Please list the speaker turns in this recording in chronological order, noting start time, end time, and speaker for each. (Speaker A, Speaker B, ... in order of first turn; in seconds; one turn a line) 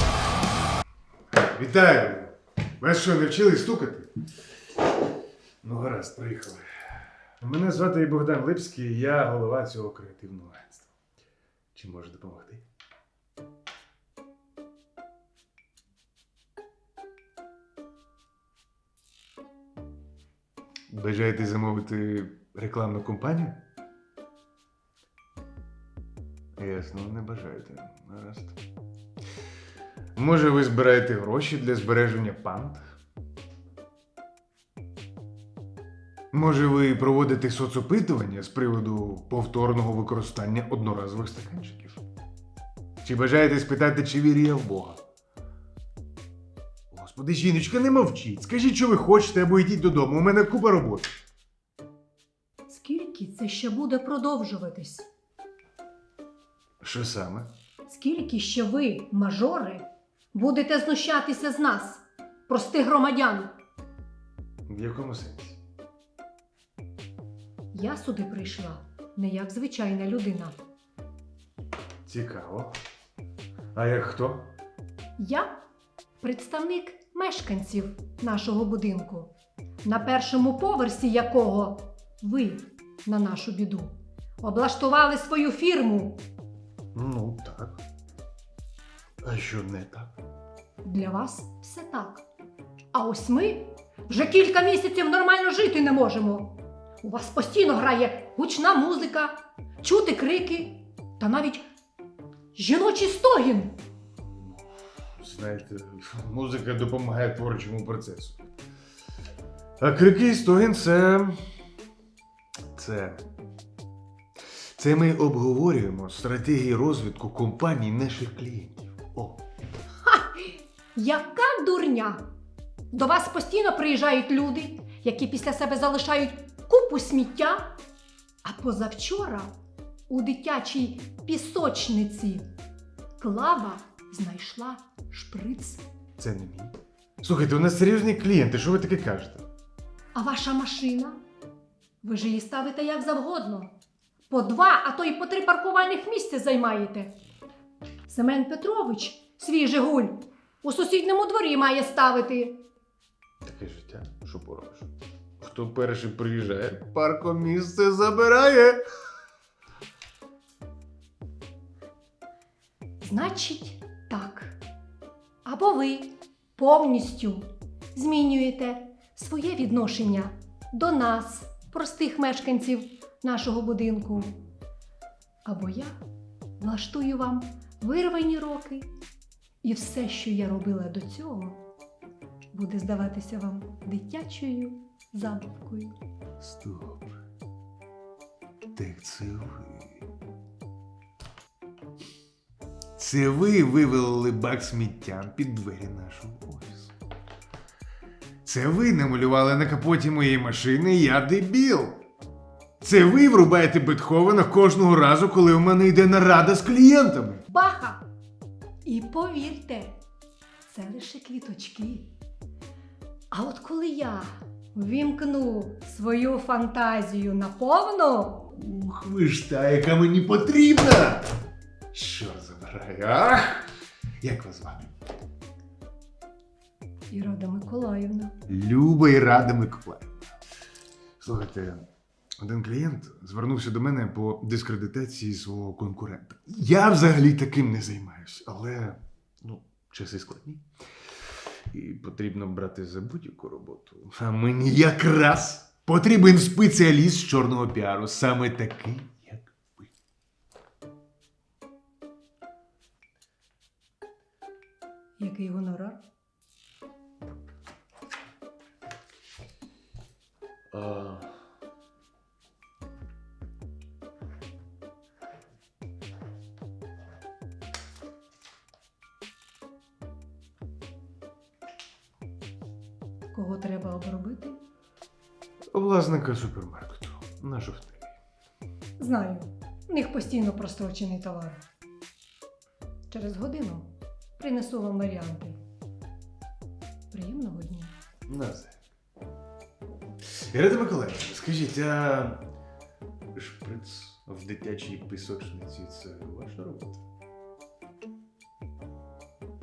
Speaker A: 1.4-4.2
Speaker A: 5.6-10.9
Speaker A: 11.8-12.7
Speaker A: 20.9-23.6
Speaker A: 26.6-28.6
Speaker A: 30.2-32.9
Speaker A: 36.3-42.0
Speaker A: 43.0-45.0
Speaker A: 46.9-51.1
Speaker B: 52.7-55.1
Speaker A: 56.8-57.5
Speaker B: 57.9-63.5
Speaker A: 64.7-65.6
Speaker B: 67.7-70.6
Speaker A: 72.1-72.7
Speaker A: 73.8-74.5
Speaker B: 75.2-75.6
Speaker B: 76.2-79.3
Speaker B: 79.8-86.2
Speaker A: 86.9-87.8
Speaker A: 89.2-90.2
Speaker B: 90.8-92.2
Speaker B: 92.9-101.7
Speaker B: 102.5-103.8
Speaker A: 105.2-108.4
Speaker A: 109.8-111.4
Speaker A: 112.7-113.3
Speaker A: 114.8-119.4
Speaker B: 120.1-122.2
Speaker B: 122.9-127.8
Speaker B: 128.4-129.5
Speaker B: 130.1-132.5
Speaker B: 133.2-135.8
Speaker A: 136.2-139.5
Speaker B: 140.1-141.2
Speaker B: 142.0-143.7
Speaker B: 144.3-147.1
Speaker B: 148.1-152.6
Speaker A: 153.4-154.9
Speaker A: 155.4-158.8
Speaker B: 163.0-164.6
Speaker B: 165.4-174.4
Speaker B: 175.4-176.0
Speaker B: 176.6-178.9
Speaker B: 179.6-181.6
Speaker B: 182.5-185.9
Speaker A: 186.4-187.2
Speaker A: 188.8-190.0
Speaker A: 193.0-196.9
Speaker A: 198.4-202.0
Speaker A: 202.8-207.4
Speaker B: 207.5-208.0
Speaker B: 208.8-210.0
Speaker B: 210.7-212.1
Speaker B: 213.3-218.4
Speaker A: 218.4-221.3
Speaker A: 221.9-224.9
Speaker B: 227.1-228.3
Speaker A: 228.5-230.3
Speaker A: 231.2-231.9
Speaker A: 232.4-240.7
Speaker A: 241.7-249.9
Speaker B: 255.2-256.0
Speaker A: 260.7-261.3
Speaker B: 273.3-274.6
Speaker A: 275.7-278.1
Speaker B: 279.0-281.6
Speaker B: 283.1-285.6
Speaker B: 287.1-287.9
Speaker A: 288.3-288.8
Speaker A: 290.4-292.4
Speaker A: 293.3-297.0